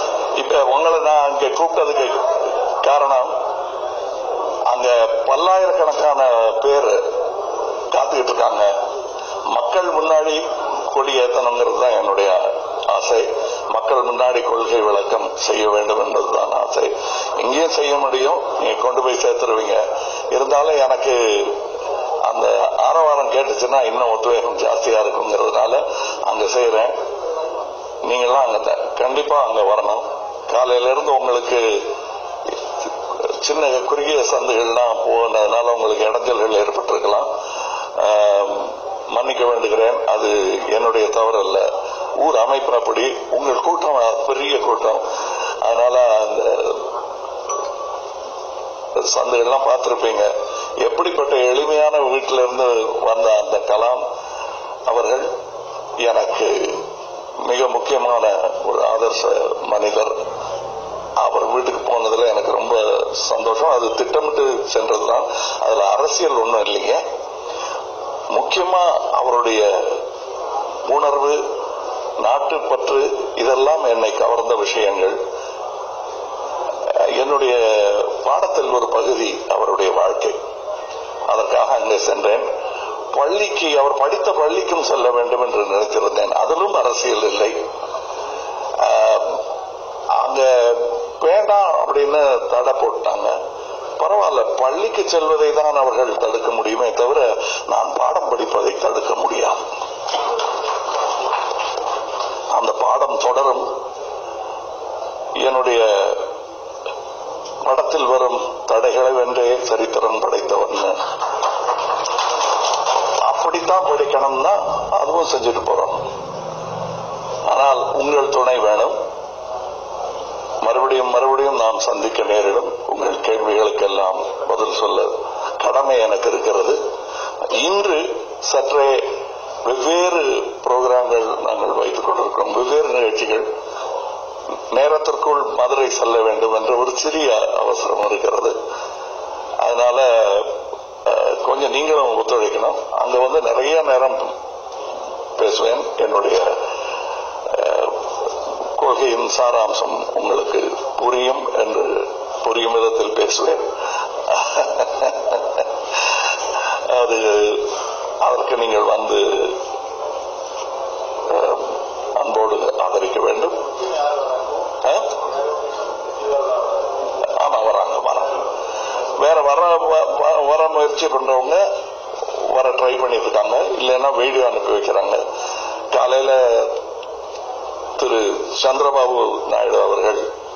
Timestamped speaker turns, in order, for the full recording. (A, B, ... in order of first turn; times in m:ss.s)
0:00.4-0:03.3 A
0:04.7-0:07.0 A
0:07.9-0:08.7 A
0:09.5-0:19.8 A
0:20.3-0:21.6 A
0:22.2-0:26.9 A
0:28.0-0:31.6 A
0:33.4-0:37.3 A
0:38.0-0:41.7 A
0:42.2-0:45.0 A
0:45.6-0:46.8 A
0:49.0-0:50.3 A
0:50.8-0:54.0 A
0:54.9-0:55.3 A
0:56.0-0:56.8 A
0:57.4-1:00.2 A
1:01.2-1:07.0 A
1:08.3-1:10.0 A
1:10.9-1:11.4 A
1:12.2-1:15.2 A
1:17.2-1:20.4 A
1:21.3-1:22.5 A
1:23.1-1:27.6 A
1:28.8-1:29.4 A
1:30.2-1:33.4 A
1:34.0-1:39.6 A
1:42.5-1:43.7 A
1:45.4-1:46.2 A
1:47.6-1:51.0 A
1:53.2-1:56.1 A
1:57.5-1:59.0 A
2:00.6-2:06.8 A
2:07.5-2:09.1 A
2:09.7-2:13.5 A
2:14.7-2:18.6 A
2:19.6-2:20.5 A
2:21.0-2:24.4 A
2:25.4-2:26.6 A
2:27.5-2:28.0 A
2:28.8-2:33.7 A
2:34.3-2:35.6 A
2:36.9-2:37.7 A
2:38.2-2:39.6 A
2:41.3-2:43.6 A
2:44.8-2:45.1 A
2:47.4-2:48.4 A
2:49.2-2:51.6 A
2:52.5-2:55.2 A
2:55.9-2:56.7 A
2:58.0-3:00.2 A